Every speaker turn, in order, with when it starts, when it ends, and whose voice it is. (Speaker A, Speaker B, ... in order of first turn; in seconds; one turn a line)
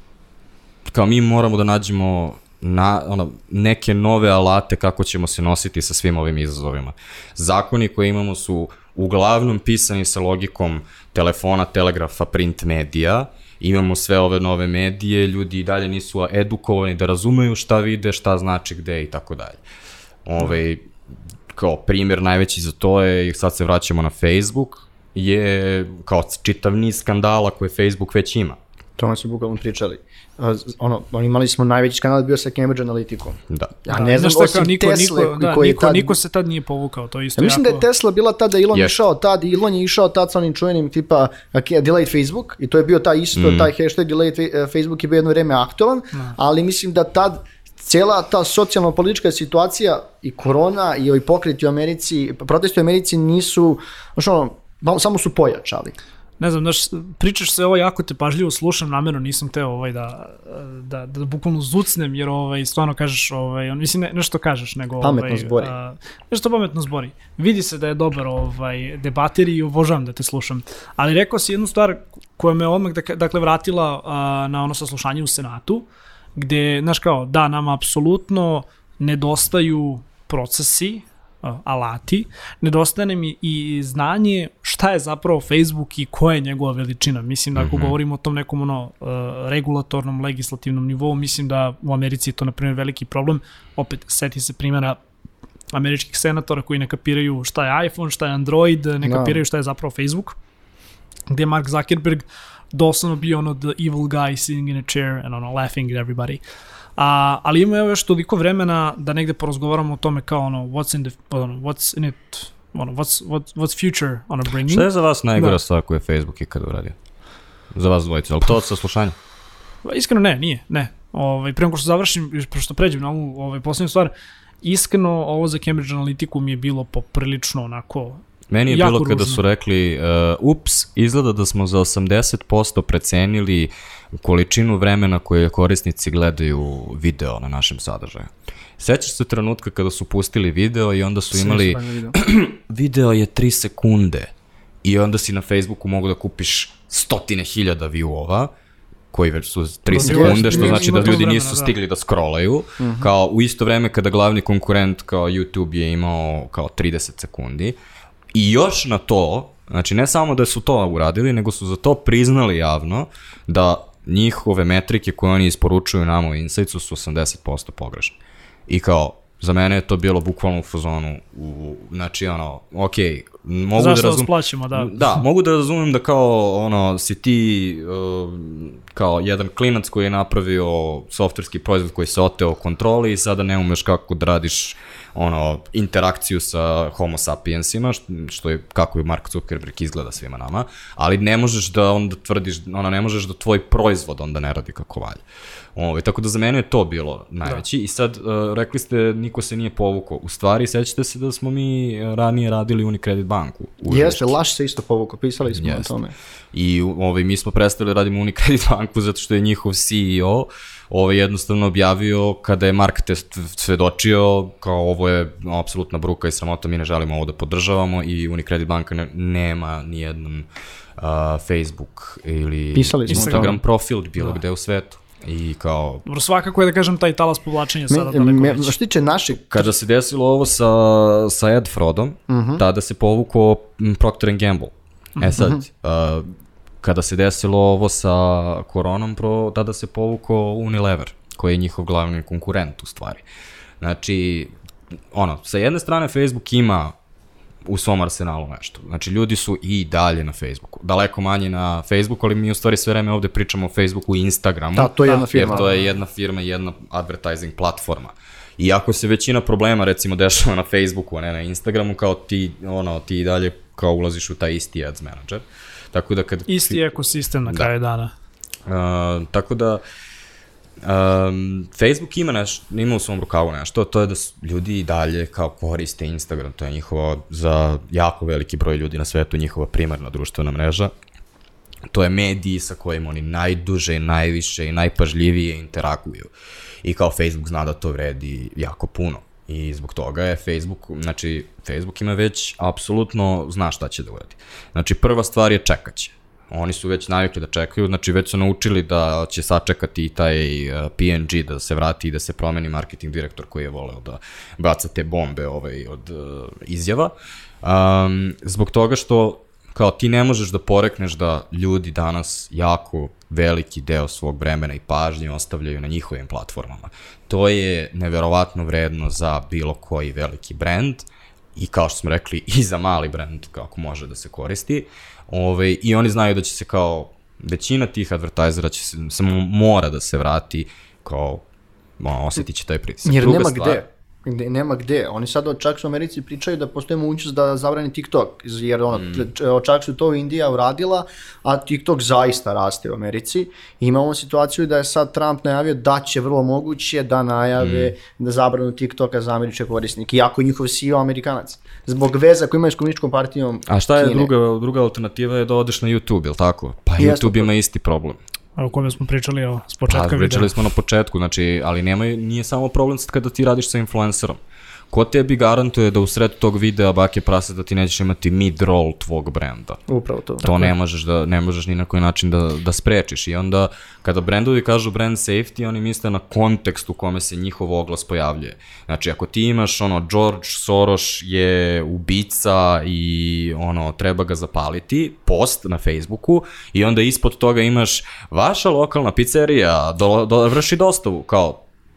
Speaker A: 0.9-19.6
Speaker A: 20.2-20.9
Speaker A: 21.5-28.6
Speaker B: 29.0-36.2
Speaker A: 33.5-33.8
Speaker C: 33.9-37.8
Speaker B: 37.4-55.9
Speaker A: 43.3-43.7
Speaker C: 56.4-95.0
Speaker B: 65.0-65.7
Speaker A: 87.5-88.0
Speaker C: 95.7-100.3
Speaker B: 99.0-99.4
Speaker C: 101.3-106.4
Speaker C: 107.0-115.6
Speaker A: 114.7-117.0
Speaker A: 117.7-119.1
Speaker C: 119.8-129.4
Speaker A: 128.5-144.3
Speaker B: 141.3-142.2
Speaker A: 144.8-148.5
Speaker A: 149.1-157.8
Speaker C: 149.9-151.7
Speaker B: 150.0-151.2
Speaker B: 152.8-153.1
Speaker A: 158.3-168.2
Speaker A: 168.7-195.2
Speaker C: 173.8-175.0
Speaker A: 195.8-204.4
Speaker B: 203.9-206.1
Speaker A: 205.5-205.9
Speaker A: 206.5-220.5
Speaker A: 221.0-226.0
Speaker B: 222.7-223.6
Speaker C: 223.1-223.6
Speaker C: 226.1-228.7
Speaker B: 227.9-229.7
Speaker A: 229.5-236.3
Speaker B: 232.3-232.6
Speaker B: 235.3-235.6
Speaker A: 236.8-243.2
Speaker A: 243.8-244.5
Speaker A: 245.1-246.9
Speaker A: 247.7-266.9
Speaker B: 254.7-255.7
Speaker C: 255.0-255.8
Speaker C: 266.5-268.1
Speaker A: 268.7-269.8
Speaker A: 270.8-280.9
Speaker A: 281.9-286.3
Speaker A: 286.8-331.4
Speaker A: 332.0-333.8
Speaker B: 333.0-354.3
Speaker A: 338.9-339.2
Speaker A: 347.6-347.9
Speaker A: 353.7-358.2
Speaker B: 357.0-357.5
Speaker C: 358.6-360.5
Speaker A: 359.9-364.4
Speaker A: 364.9-369.8
Speaker B: 369.9-370.4
Speaker A: 370.4-391.6
Speaker C: 370.4-370.7